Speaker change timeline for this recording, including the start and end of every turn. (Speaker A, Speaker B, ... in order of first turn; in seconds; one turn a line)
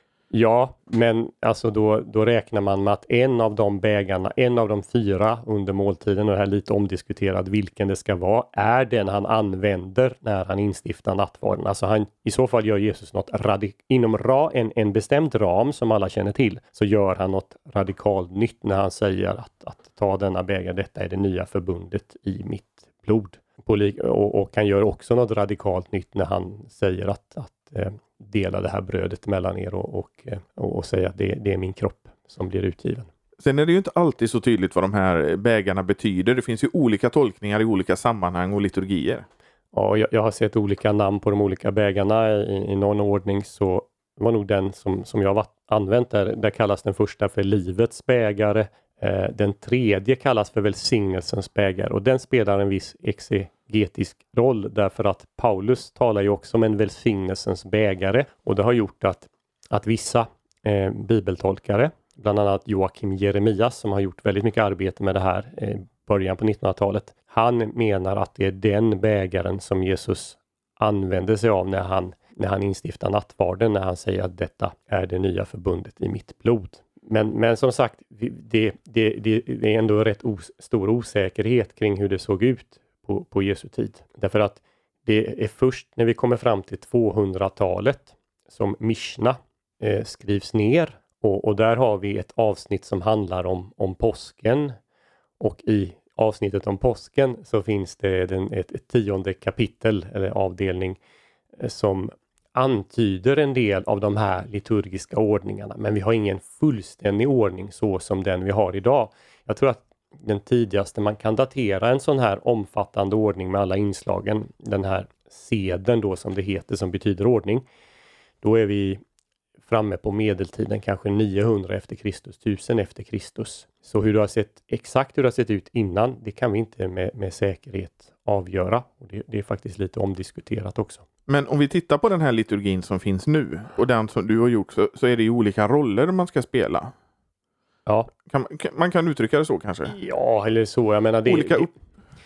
Speaker A: 0.3-33.1
Speaker B: 33.4-39.2
Speaker A: 39.7-94.8
Speaker A: 95.4-101.0
Speaker A: 101.6-117.6
Speaker A: 118.4-119.0
Speaker A: 119.7-131.1
Speaker B: 131.3-136.9
Speaker B: 138.2-139.9
Speaker A: 139.9-141.7
Speaker B: 141.2-141.7